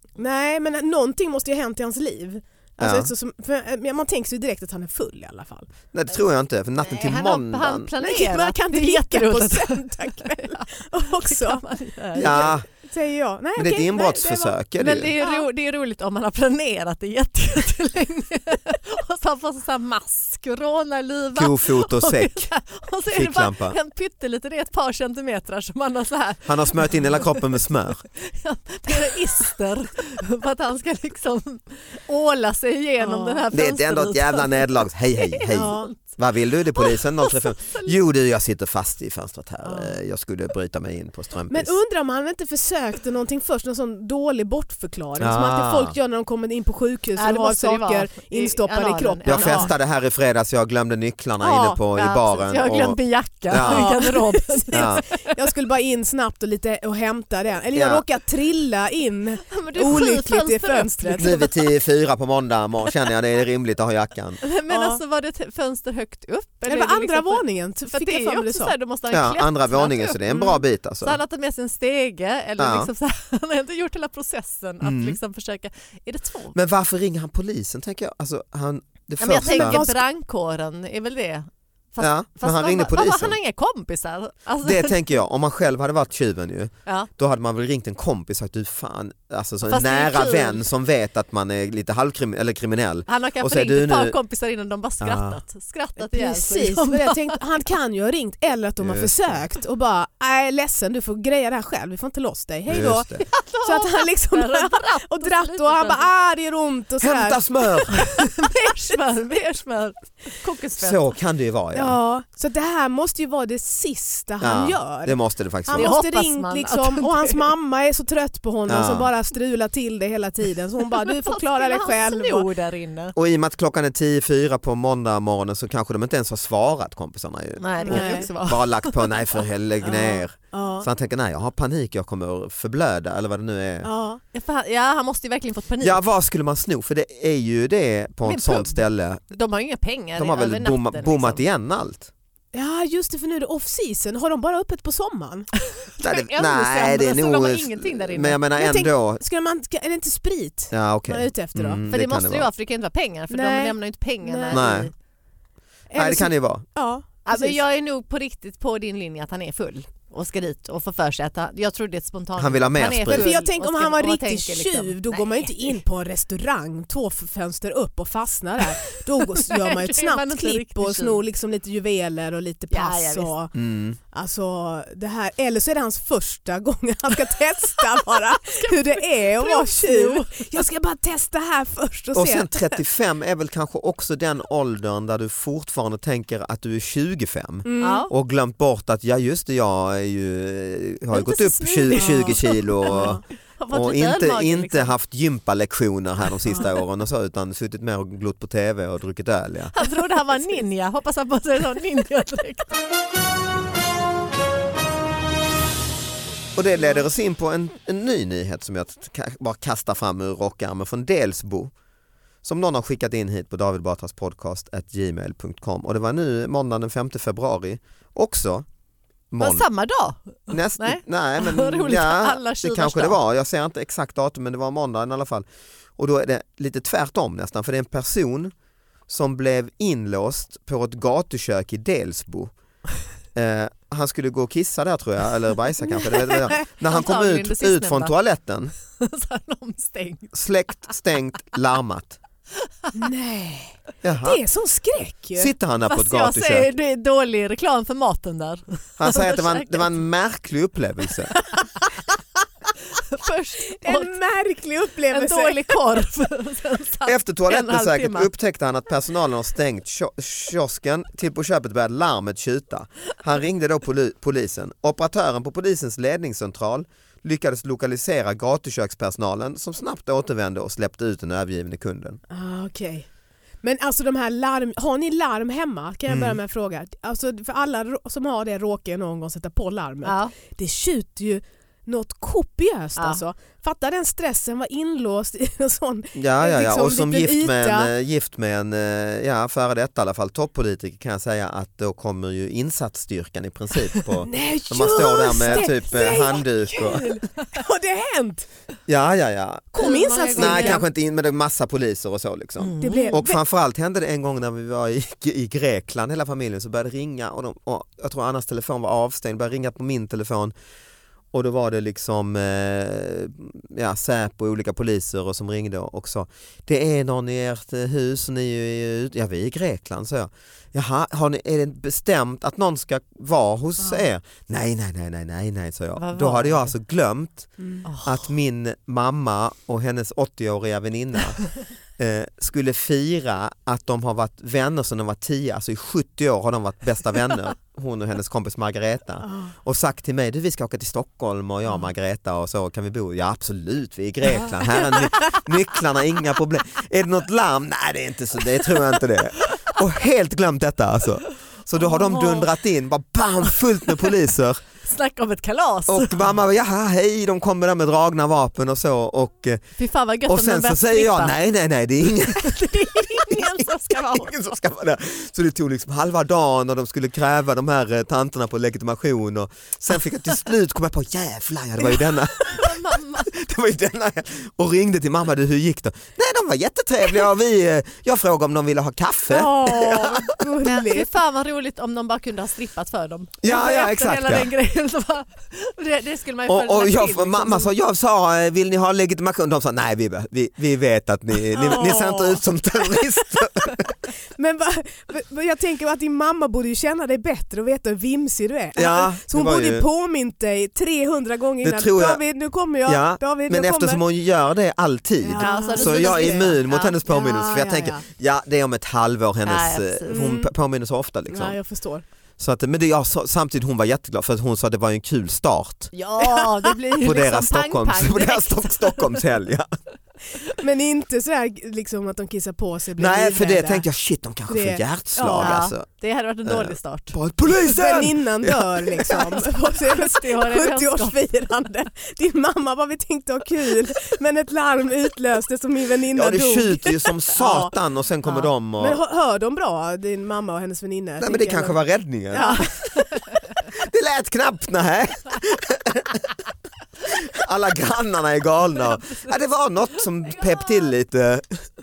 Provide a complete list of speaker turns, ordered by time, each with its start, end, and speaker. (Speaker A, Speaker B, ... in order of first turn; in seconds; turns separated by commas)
Speaker A: 0.2-5.7, Speaker B: 2.8-3.1, Speaker B: 5.9-7.9, Speaker C: 6.8-12.5, Speaker A: 8.0-14.6, Speaker B: 12.2-12.7, Speaker B: 13.6-15.1, Speaker C: 14.8-27.4, Speaker A: 15.2-15.5, Speaker B: 21.3-22.5, Speaker B: 23.1-23.8, Speaker B: 26.4-28.0, Speaker C: 28.1-35.9, Speaker A: 33.0-33.4, Speaker B: 33.5-41.7, Speaker A: 35.5-35.9, Speaker C: 36.8-37.9, Speaker A: 39.6-39.9, Speaker A: 41.5-49.7, Speaker B: 45.2-45.9, Speaker C: 47.2-49.7, Speaker B: 49.2-53.9, Speaker A: 51.4-51.8, Speaker C: 51.9-55.3, Speaker A: 53.6-61.4, Speaker B: 54.7-55.0, Speaker B: 57.7-58.0, Speaker C: 59.5-61.6, Speaker B: 61.2-64.4, Speaker C: 64.4-76.5, Speaker A: 64.7-65.0, Speaker A: 66.7-68.7, Speaker B: 69.1-71.2, Speaker A: 70.3-70.6, Speaker B: 72.6-72.9, Speaker B: 74.8-75.2, Speaker B: 76.5-79.8, Speaker C: 79.2-85.0, Speaker A: 79.3-80.0, Speaker B: 82.0-83.4, Speaker B: 84.6-94.2, Speaker C: 89.7-90.7, Speaker C: 93.1-97.3, Speaker B: 95.0-95.4, Speaker A: 96.0-108.2, Speaker B: 98.8-99.4, Speaker B: 102.7-103.2, Speaker C: 103.2-106.0, Speaker B: 107.0-108.0, Speaker C: 107.9-111.1, Speaker B: 110.8-112.0, Speaker A: 111.7-122.5, Speaker B: 114.4-115.9, Speaker C: 115.7-117.5, Speaker B: 118.7-119.1, Speaker C: 121.0-123.1, Speaker B: 123.1-133.9, Speaker C: 127.6-129.2, Speaker A: 127.8-128.3, Speaker A: 129.8-130.9, Speaker A: 133.8-134.2, Speaker C: 134.3-136.0, Speaker B: 135.8-139.2, Speaker C: 138.2-141.4, Speaker B: 140.2-142.1, Speaker A: 142.5-145.5, Speaker C: 145.9-148.4, Speaker B: 146.0-149.2, Speaker A: 148.6-151.8, Speaker B: 150.7-152.5, Speaker C: 151.8-154.9, Speaker A: 153.3-154.9, Speaker B: 154.5-154.9, Speaker A: 155.9-157.6, Speaker B: 155.9-156.6, Speaker C: 157.2-165.8, Speaker B: 162.4-163.3, Speaker A: 163.1-173.5, Speaker C: 169.3-171.2, Speaker C: 172.7-173.3, Speaker B: 173.5-174.0, Speaker A: 174.1-182.7, Speaker C: 177.7-180.5, Speaker B: 182.1-199.7, Speaker A: 187.6-188.1, Speaker C: 187.8-188.1, Speaker A: 191.1-193.2, Speaker C: 191.9-194.9, Speaker C: 199.7-202.7, Speaker B: 206.5-211.7, Speaker B: 212.4-218.7, Speaker B: 219.3-219.7, Speaker C: 219.4-223.2, Speaker B: 220.5-225.4, Speaker B: 226.0-228.5, Speaker B: 229.1-232.5, Speaker B: 233.3-238.7, Speaker C: 236.8-238.1, Speaker C: 238.9-240.3, Speaker B: 240.3-242.2, Speaker C: 242.7-242.9, Speaker A: 242.9-245.5, Speaker B: 244.0-244.4, Speaker B: 245.3-246.7, Speaker C: 245.9-250.0, Speaker B: 249.0-251.3, Speaker C: 252.9-254.2, Speaker A: 253.8-255.8, Speaker C: 255.1-258.3, Speaker B: 257.1-272.2, Speaker A: 272.3-273.1, Speaker A: 273.6-287.9, Speaker B: 276.1-276.4, Speaker C: 280.0-280.3, Speaker B: 286.1-297.1, Speaker A: 294.2-298.4, Speaker C: 296.8-297.6, Speaker B: 298.9-310.5, Speaker A: 299.7-300.8, Speaker C: 299.8-300.8, Speaker C: 302.6-303.2, Speaker A: 302.8-303.4, Speaker B: 311.3-327.5, Speaker C: 326.0-326.7, Speaker A: 327.6-327.8, Speaker C: 327.8-328.3, Speaker B: 328.0-354.6, Speaker A: 339.2-339.5, Speaker C: 351.9-352.4, Speaker C: 354.8-356.3, Speaker B: 355.9-359.6, Speaker C: 359.8-361.4, Speaker B: 360.2-380.4, Speaker C: 362.3-364.3, Speaker C: 372.5-373.3, Speaker A: 379.3-381.1, Speaker C: 380.6-387.7, Speaker B: 383.4-384.5, Speaker B: 386.5-393.9, Speaker A: 391.5-393.7, Speaker A: 394.4-404.0, Speaker B: 398.8-399.8, Speaker B: 401.6-402.2, Speaker B: 402.9-411.6, Speaker A: 405.2-408.0, Speaker C: 405.4-407.0, Speaker C: 409.4-410.2, Speaker A: 410.1-410.5, Speaker A: 411.3-412.0, Speaker B: 412.4-415.9, Speaker C: 415.9-419.2, Speaker A: 416.2-416.6, Speaker B: 417.0-419.7, Speaker A: 420.6-423.9, Speaker B: 423.0-425.9, Speaker A: 424.5-425.6, Speaker C: 425.4-427.2, Speaker B: 426.4-429.4, Speaker A: 427.6-437.7, Speaker C: 429.5-431.2, Speaker B: 436.1-439.0, Speaker A: 438.8-441.8, Speaker B: 441.2-442.7, Speaker A: 442.3-442.7, Speaker C: 442.3-442.7, Speaker B: 443.7-446.2, Speaker B: 447.0-451.7, Speaker C: 450.3-450.9